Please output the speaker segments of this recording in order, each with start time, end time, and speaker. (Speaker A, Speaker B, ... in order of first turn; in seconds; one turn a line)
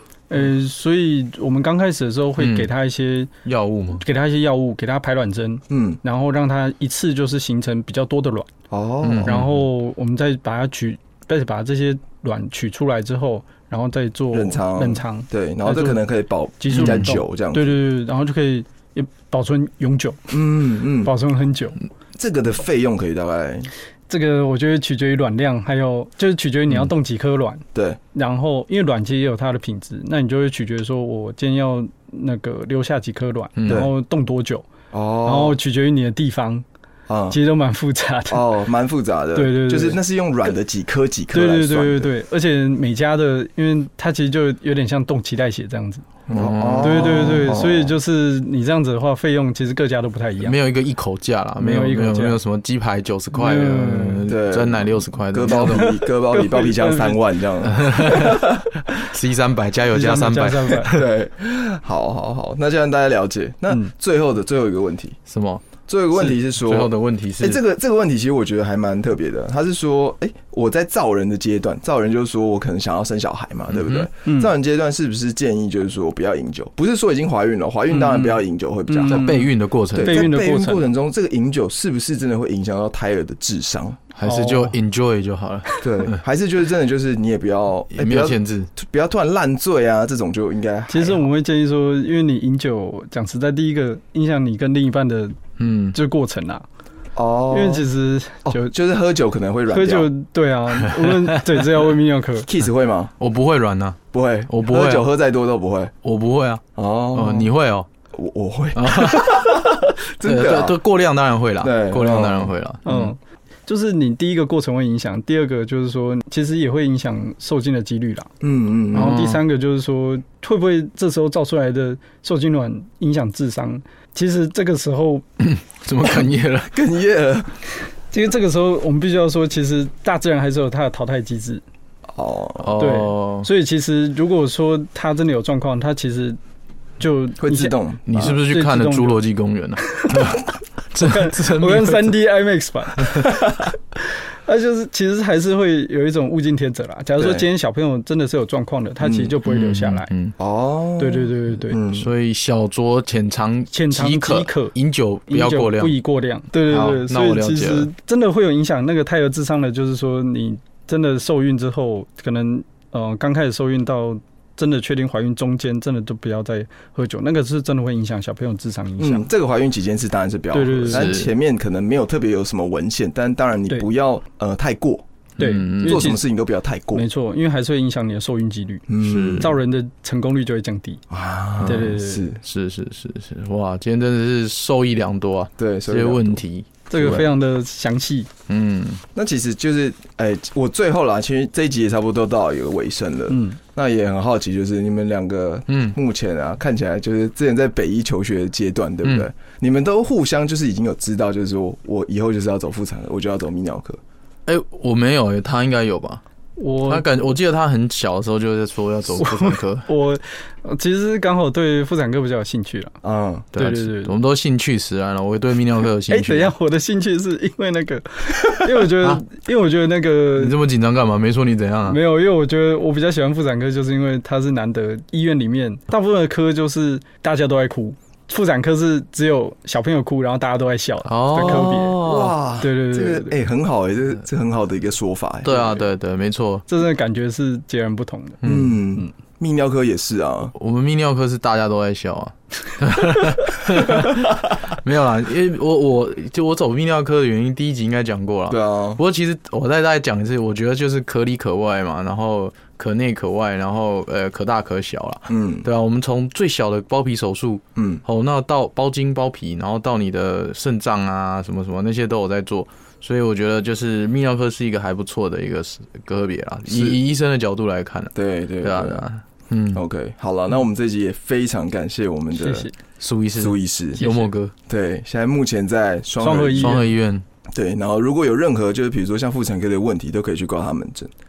Speaker A: 0.3-3.3
Speaker B: 2.4-2.7
Speaker B: 3.4-4.0
Speaker A: 4.0-8.5
Speaker C: 5.7-6.0
Speaker C: 8.7-9.5
Speaker B: 9.0-9.5
Speaker A: 9.2-16.0
Speaker C: 14.3-17.8
Speaker A: 16.6-21.8
Speaker B: 16.7-17.1
Speaker C: 20.3-21.1
Speaker C: 22.2-23.7
Speaker A: 24.1-34.7
Speaker C: 27.7-28.0
Speaker B: 33.6-33.9
Speaker C: 34.9-35.6
Speaker A: 35.2-36.6
Speaker C: 37.1-37.4
Speaker A: 37.3-38.5
Speaker C: 38.3-42.1
Speaker A: 39.3-40.0
Speaker A: 41.3-46.0
Speaker C: 46.3-47.9
Speaker B: 46.3-47.5
Speaker A: 46.8-50.6
Speaker B: 50.4-55.9
Speaker A: 51.6-52.4
Speaker A: 53.3-54.3
Speaker C: 54.3-58.6
Speaker A: 55.5-57.2
Speaker B: 57.6-58.4
Speaker B: 59.0-61.1
Speaker A: 59.9-61.0
Speaker C: 60.9-65.2
Speaker B: 65.3-67.6
Speaker C: 65.9-84.0
Speaker B: 73.7-74.1
Speaker A: 74.2-74.5
Speaker A: 77.9-80.9
Speaker B: 79.1-80.3
Speaker B: 84.1-86.1
Speaker A: 84.2-84.8
Speaker C: 85.8-91.3
Speaker B: 87.9-88.7
Speaker A: 90.9-95.4
Speaker B: 95.6-96.0
Speaker A: 95.9-96.6
Speaker C: 97.1-97.9
Speaker A: 97.5-98.7
Speaker C: 98.4-100.1
Speaker A: 99.7-102.5
Speaker C: 102.4-103.1
Speaker B: 103.2-105.1
Speaker C: 104.1-105.9
Speaker B: 106.0-107.9
Speaker C: 106.8-107.5
Speaker C: 108.1-110.8
Speaker B: 108.8-113.1
Speaker C: 111.6-112.5
Speaker A: 112.8-118.3
Speaker C: 118.4-119.1
Speaker A: 118.9-125.2
Speaker B: 118.9-119.4
Speaker B: 125.4-126.8
Speaker C: 126.7-127.5
Speaker A: 128.1-131.6
Speaker C: 132.1-132.9
Speaker B: 132.6-133.5
Speaker A: 132.8-136.4
Speaker A: 137.0-139.2
Speaker C: 137.4-138.4
Speaker B: 138.1-142.2
Speaker A: 139.9-140.4
Speaker A: 141.0-150.1
Speaker B: 143.0-143.4
Speaker C: 147.2-147.5
Speaker C: 149.0-149.3
Speaker B: 149.4-150.3
Speaker C: 150.4-152.1
Speaker A: 151.0-151.8
Speaker B: 151.9-156.0
Speaker A: 153.7-154.7
Speaker A: 155.3-169.3
Speaker B: 156.7-157.9
Speaker C: 169.0-175.0
Speaker A: 170.5-171.2
Speaker B: 170.9-171.3
Speaker B: 175.4-176.1
Speaker A: 175.4-176.2
Speaker C: 175.8-177.0
Speaker A: 176.9-181.0
Speaker C: 178.9-179.5
Speaker B: 179.0-179.5
Speaker C: 181.1-182.4
Speaker A: 181.6-182.3
Speaker B: 182.4-187.2
Speaker C: 185.6-186.4
Speaker A: 186.9-188.3
Speaker C: 186.9-187.3
Speaker B: 188.5-189.0
Speaker C: 189.1-204.0
Speaker A: 193.3-193.6
Speaker B: 195.7-196.0
Speaker B: 199.0-199.3
Speaker B: 204.5-206.2
Speaker A: 206.6-207.1
Speaker B: 206.9-209.9
Speaker A: 209.2-212.9
Speaker C: 213.0-213.5
Speaker B: 213.5-216.5
Speaker A: 213.6-214.1
Speaker A: 216.1-220.6
Speaker B: 220.3-222.0
Speaker A: 221.8-232.0
Speaker B: 231.1-232.4
Speaker C: 231.4-235.9
Speaker A: 232.6-233.4
Speaker B: 235.4-236.6
Speaker A: 236.7-239.1
Speaker B: 238.4-238.8
Speaker C: 238.4-240.5
Speaker B: 240.6-269.8
Speaker C: 248.5-249.0
Speaker C: 255.3-255.7
Speaker C: 257.8-258.0
Speaker C: 266.7-267.0
Speaker C: 268.1-269.0
Speaker C: 269.7-272.7
Speaker A: 272.3-272.8
Speaker B: 273.0-274.5
Speaker C: 273.3-274.0
Speaker A: 274.0-274.3
Speaker C: 274.7-276.8
Speaker A: 276.2-276.9
Speaker B: 276.5-277.2
Speaker C: 277.5-281.1